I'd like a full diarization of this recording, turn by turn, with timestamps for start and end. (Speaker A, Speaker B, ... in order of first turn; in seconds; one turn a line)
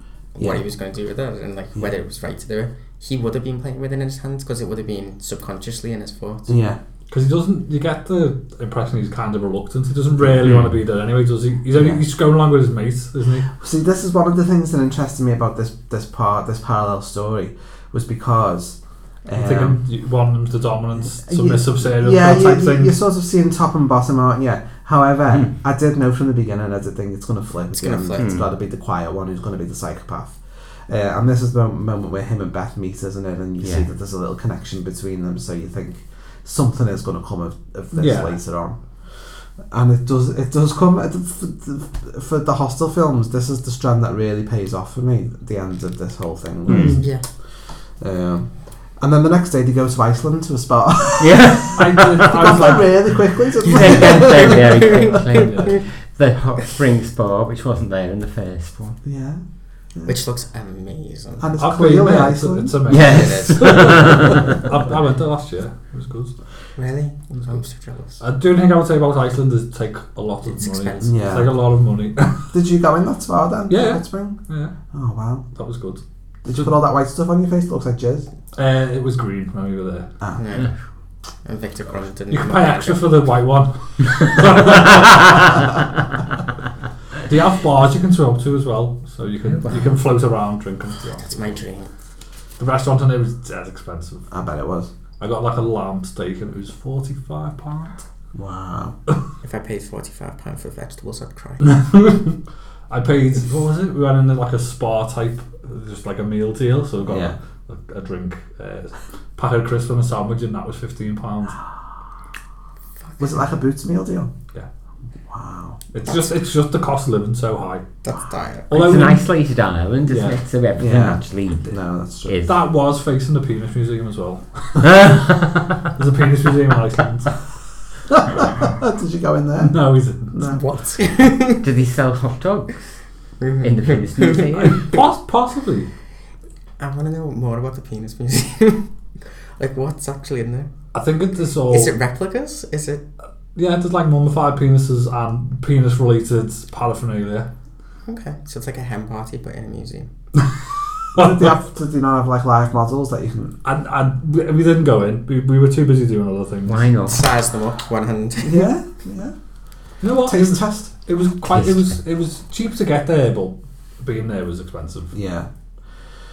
Speaker A: 0.3-6.5
Speaker B: 0.4-0.6
Speaker B: 6.5-6.8
Speaker C: 7.1-13.5
Speaker D: 10.4-10.7
Speaker B: 11.7-12.0
Speaker B: 13.6-19.8
Speaker C: 19.3-22.9
Speaker B: 21.2-47.2
Speaker A: 27.8-28.4
Speaker D: 28.1-28.5
Speaker D: 33.6-33.9
Speaker C: 37.9-38.4
Speaker D: 46.7-47.0
Speaker C: 46.7-47.0
Speaker A: 47.0-47.2
Speaker B: 48.0-54.9
Speaker D: 51.2-52.3
Speaker C: 51.7-53.2
Speaker D: 53.6-59.0
Speaker A: 54.0-55.7
Speaker C: 55.4-55.7
Speaker B: 59.0-59.4
Speaker A: 60.0-61.5
Speaker B: 61.4-63.0
Speaker C: 61.6-66.3
Speaker D: 62.9-64.4
Speaker A: 63.0-64.1
Speaker A: 66.8-68.2
Speaker C: 68.2-72.5
Speaker A: 70.5-71.2
Speaker B: 71.0-71.5
Speaker B: 72.5-74.4
Speaker C: 73.7-74.7
Speaker B: 74.9-75.4
Speaker C: 75.5-76.0
Speaker B: 76.4-78.3
Speaker C: 78.5-80.1
Speaker B: 80.2-80.6
Speaker A: 80.4-80.7
Speaker A: 81.4-83.0
Speaker C: 82.3-85.7
Speaker C: 87.2-91.6
Speaker D: 89.5-89.9
Speaker A: 91.2-91.9
Speaker C: 92.6-94.2
Speaker B: 94.3-94.9
Speaker C: 95.2-98.0
Speaker B: 98.3-99.0
Speaker A: 99.4-101.7
Speaker C: 101.6-102.3
Speaker C: 102.9-111.6
Speaker B: 107.1-107.4
Speaker A: 113.1-113.4
Speaker B: 113.2-114.3
Speaker B: 115.3-115.8
Speaker C: 115.9-117.8
Speaker A: 118.0-118.7
Speaker C: 118.7-119.3
Speaker D: 118.7-122.5
Speaker C: 120.1-120.4
Speaker B: 120.8-122.4
Speaker C: 122.5-127.4
Speaker D: 124.9-125.5
Speaker B: 128.2-129.8
Speaker C: 129.6-130.4
Speaker B: 130.3-130.7
Speaker A: 130.4-131.6
Speaker D: 131.6-132.9
Speaker A: 133.4-135.0
Speaker D: 133.6-134.8
Speaker C: 134.5-135.9
Speaker A: 136.8-138.8
Speaker A: 139.6-140.7
Speaker C: 140.9-141.9
Speaker A: 141.7-143.0
Speaker C: 143.5-147.5
Speaker A: 148.0-150.1
Speaker C: 151.1-151.6
Speaker B: 151.1-153.6
Speaker C: 153.6-156.9
Speaker D: 156.7-157.2
Speaker A: 157.0-158.7
Speaker B: 158.4-159.3
Speaker C: 160.0-165.1
Speaker B: 160.2-160.8
Speaker D: 161.5-161.9
Speaker B: 165.1-165.5